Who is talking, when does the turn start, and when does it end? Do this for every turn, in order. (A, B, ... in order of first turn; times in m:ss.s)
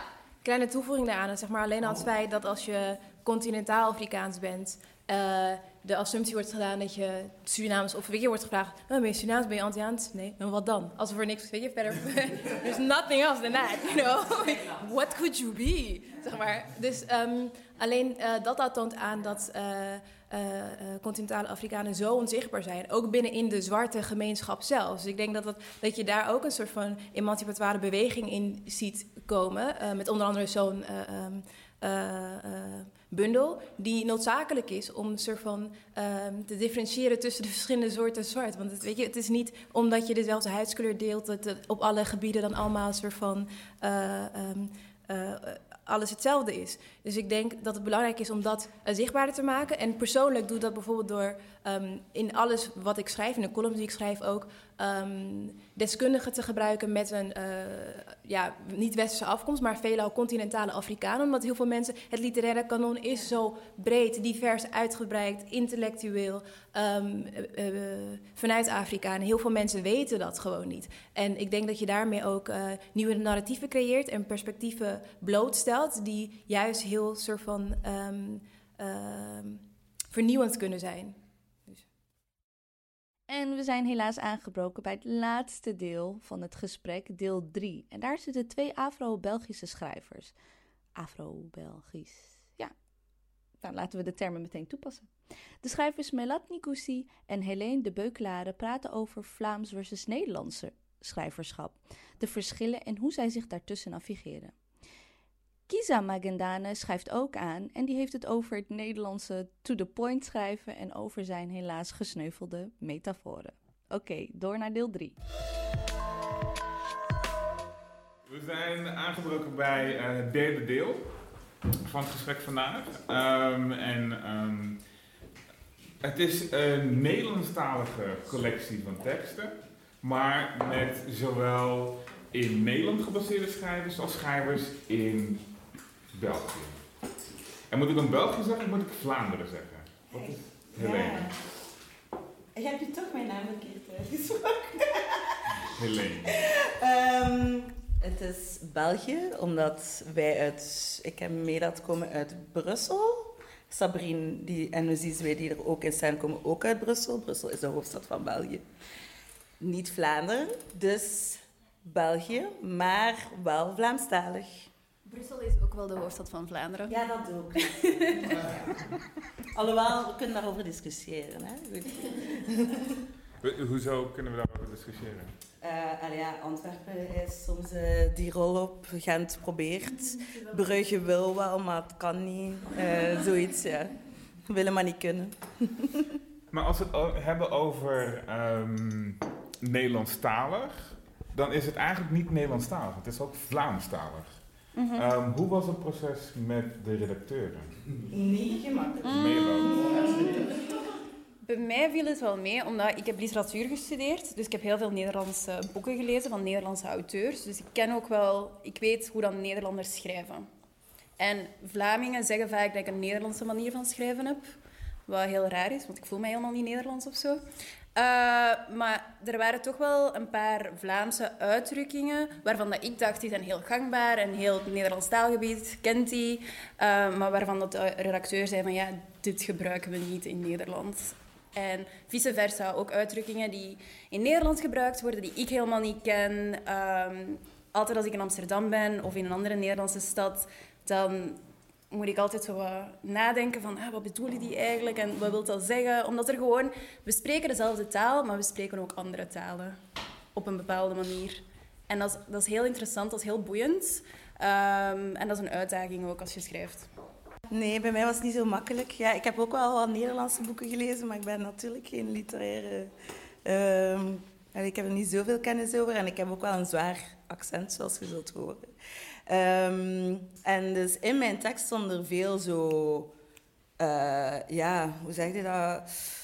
0:00.4-1:21.2 A
1:23.3-1:30.3 B
1:31.0-1:32.7 B
1:33.6-1:35.1 B
1:35.6-1:44.5 B
1:45.7-1:55.2 B
1:58.3-2:01.0 C
2:01.8-2:04.8 C
2:06.0-2:15.4 C
2:16.1-2:16.8 C
2:17.7-2:21.3 C
2:20.1-2:21.4 D
2:22.5-2:25.3 D
2:25.6-2:26.3 C
2:26.2-2:38.6 D
2:39.6-2:44.7 D
2:45.0-2:46.9 E
2:46.9-2:48.6 D
2:48.0-2:48.4 E
2:49.5-2:52.5 D
2:53.4-2:55.3 C
2:55.6-3:03.9 D
3:04.5-3:06.0 D
3:06.5-3:17.7 C
3:18.1-3:19.2 D
3:19.0-3:19.9 C
3:19.9-3:20.2 D
3:21.4-3:30.5 E
3:31.2-3:34.5 E
3:35.1-3:37.4 E
3:37.9-4:01.4 E
4:01.9-4:09.8 E
4:10.3-4:16.9 E
4:17.5-4:22.9 D
4:23.4-4:28.7 D
4:29.3-4:33.1 D
4:33.8-4:35.8 D